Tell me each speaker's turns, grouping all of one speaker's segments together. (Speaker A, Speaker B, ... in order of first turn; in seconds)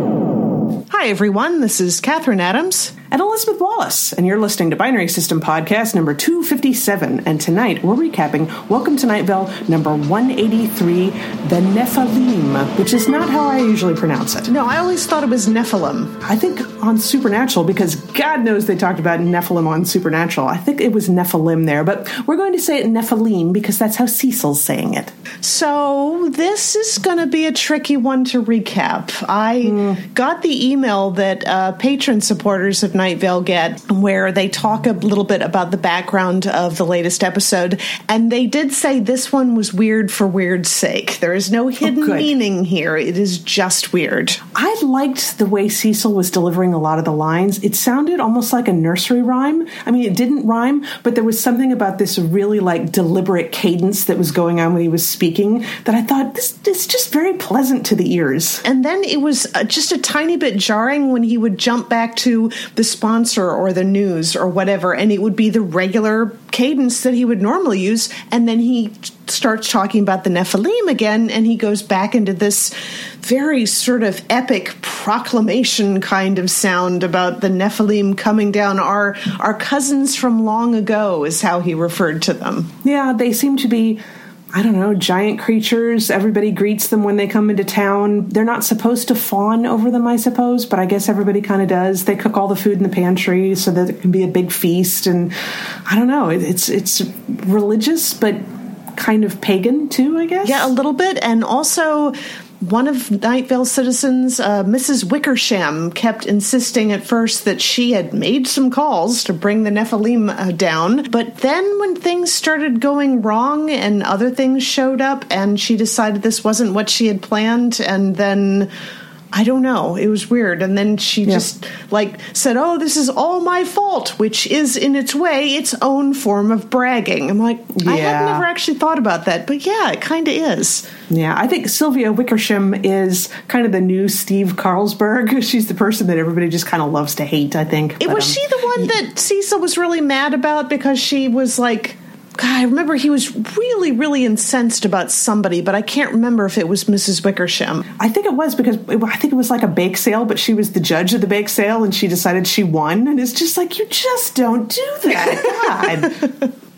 Speaker A: 0.9-3.0, 14.5-16.2, 25.4-44.4, 58.6-82.7, 100.4-118.7, 119.3-130.9, 138.0-147.9, 155.1-155.8
Speaker B: 3.1-14.5, 16.2-25.1, 29.6-30.0, 41.8-42.3, 44.5-58.6, 82.8-84.0, 84.5-95.3, 95.9-98.4, 98.9-100.7, 127.7-128.4, 131.1-138.4, 148.0-156.3